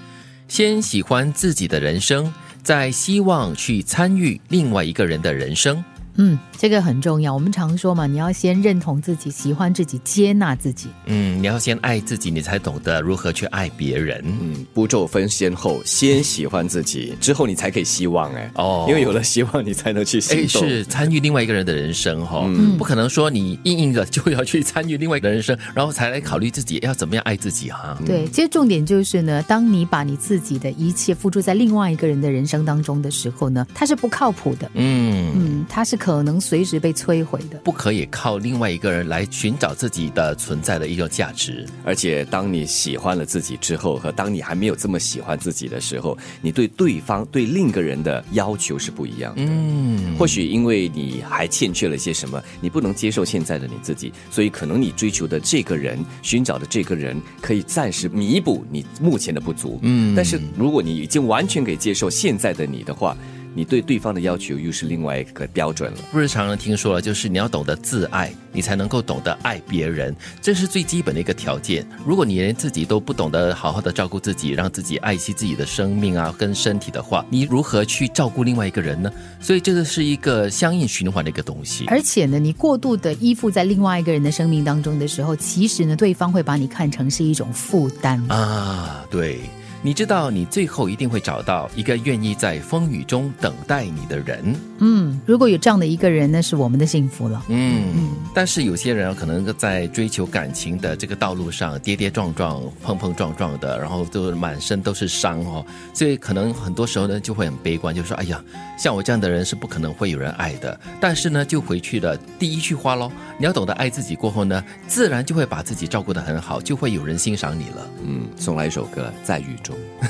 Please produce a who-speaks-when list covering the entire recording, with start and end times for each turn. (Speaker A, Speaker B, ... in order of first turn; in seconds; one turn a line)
Speaker A: 0.5-5.8
Speaker B: 6.2-10.9
Speaker A: 11.0-14.4
Speaker C: 14.4-21.1
Speaker A: 18.5-19.1
Speaker A: 20.3-28.0
Speaker C: 22.4-22.8
Speaker B: 22.6-22.9
Speaker C: 28.0-28.3
Speaker B: 28.1-34.7
Speaker A: 34.7-35.6
Speaker B: 35.3-37.6
Speaker A: 37.6-41.7
Speaker C: 41.8-66.1
Speaker A: 49.4-50.4
Speaker A: 59.8-60.5
Speaker A: 66.1-81.9
Speaker B: 81.9-88.3
Speaker A: 88.3-94.6
Speaker B: 94.8-98.2
Speaker A: 97.5-117.9
Speaker C: 118.0-119.8